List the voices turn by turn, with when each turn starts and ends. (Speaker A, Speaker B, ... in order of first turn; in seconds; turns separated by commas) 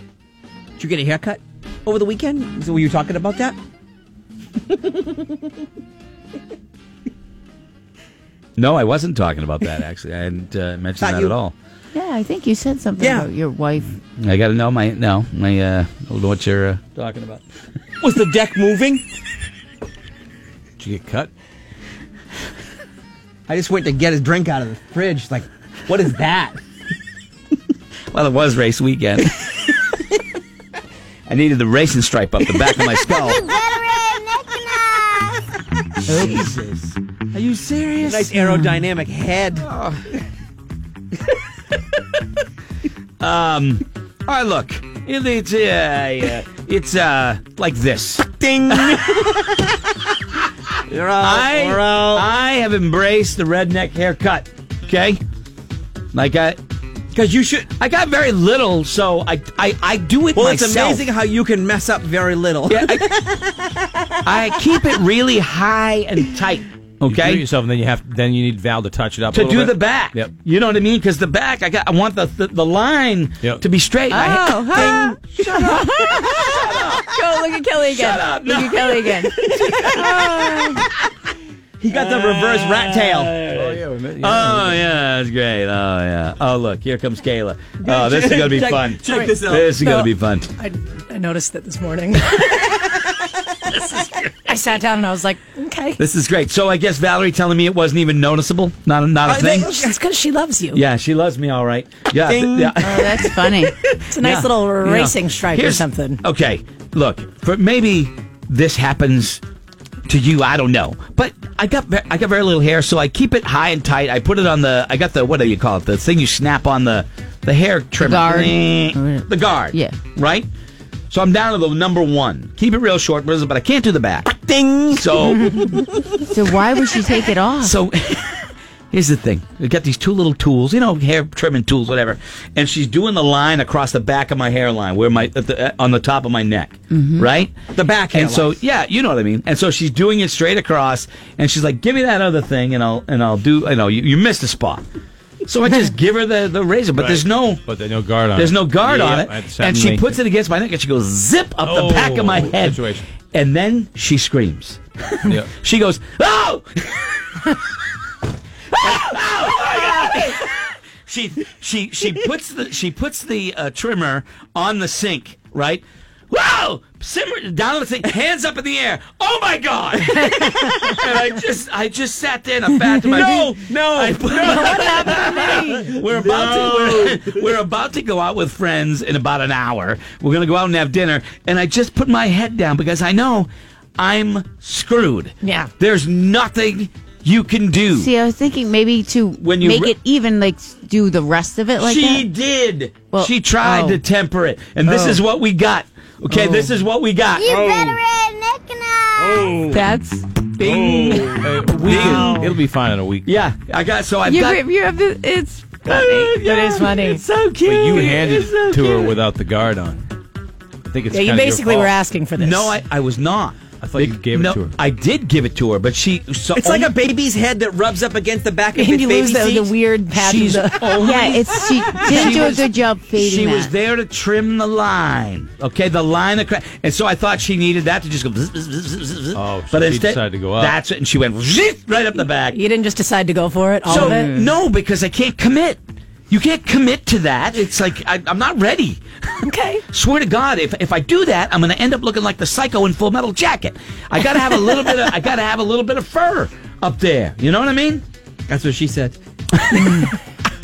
Speaker A: 0.8-3.5, Speaker B: 8.6-11.5, Speaker A: 11.0-11.3, Speaker C: 11.9-13.9, Speaker A: 13.0-13.3, Speaker B: 14.2-17.4, Speaker A: 18.0-19.0, Speaker D: 20.8-21.3, Speaker A: 23.5-26.6, Speaker B: 28.1-29.5, Speaker B: 31.3-33.5, Speaker A: 33.5-35.2, Speaker B: 36.1-38.4, Speaker A: 38.0-39.7, Speaker B: 39.6-40.0, Speaker B: 43.2-49.2, Speaker A: 48.4-49.6, Speaker A: 50.9-52.3, Speaker B: 51.2-55.2, Speaker B: 56.1-56.6, Speaker A: 57.1-57.7, Speaker B: 57.8-61.0, Speaker A: 60.3-64.1, Speaker B: 62.7-63.0, Speaker B: 64.2-67.4, Speaker D: 67.0-70.3, Speaker B: 69.3-77.2, Speaker C: 74.1-79.4, Speaker A: 74.7-75.9, Speaker B: 77.8-80.9, Speaker A: 79.4-80.6, Speaker C: 79.9-80.8, Speaker A: 81.8-83.3, Speaker B: 81.9-90.5, Speaker D: 83.5-84.9, Speaker A: 87.8-89.8, Speaker E: 89.1-92.7, Speaker A: 92.7-93.1, Speaker B: 93.7-94.5, Speaker E: 94.5-96.0, Speaker B: 96.0-99.8, Speaker A: 99.2-100.0, Speaker E: 99.4-100.8, Speaker B: 100.7-103.4, Speaker A: 102.2-103.7, Speaker C: 102.8-103.8, Speaker E: 104.1-106.2, Speaker B: 104.2-109.4, Speaker B: 110.1-120.5, Speaker C: 118.0-120.0, Speaker B: 121.1-124.3, Speaker A: 124.3-126.2, Speaker B: 124.9-125.7, Speaker C: 126.3-127.8, Speaker B: 127.6-137.6, Speaker C: 136.9-137.3, Speaker A: 137.7-138.6, Speaker B: 138.1-144.8, Speaker B: 145.4-147.6, Speaker D: 146.9-150.1, Speaker B: 148.3-157.6, Speaker D: 151.6-153.1, Speaker D: 155.2-155.5, Speaker B: 158.7-188.1, Speaker A: 173.0-177.5, Speaker E: 174.4-175.8, Speaker E: 185.4-185.7, Speaker C: 187.9-192.3, Speaker B: 189.4-189.9, Speaker B: 191.8-197.7, Speaker C: 193.1-194.0, Speaker C: 194.9-195.2, Speaker D: 196.3-196.7, Speaker A: 197.4-198.1, Speaker C: 197.5-199.0, Speaker D: 199.2-199.8, Speaker A: 199.3-199.7, Speaker C: 199.7-200.5, Speaker D: 200.6-203.3, Speaker B: 200.6-202.5, Speaker A: 200.8-202.5, Speaker C: 202.2-202.5, Speaker B: 203.2-204.6, Speaker C: 204.2-206.4, Speaker B: 205.8-209.2, Speaker E: 206.4-207.2, Speaker D: 207.6-210.0, Speaker D: 210.8-211.9, Speaker E: 211.1-212.8, Speaker B: 212.4-216.9, Speaker D: 213.8-214.7, Speaker A: 216.5-219.7, Speaker E: 218.7-221.2, Speaker B: 220.1-232.6, Speaker C: 220.9-223.7, Speaker D: 229.3-230.8, Speaker E: 232.5-234.4, Speaker B: 233.9-235.8, Speaker C: 233.9-234.5, Speaker B: 236.3-239.0, Speaker E: 239.4-239.8, Speaker B: 239.9-248.0, Speaker A: 248.5-249.2, Speaker B: 249.6-250.0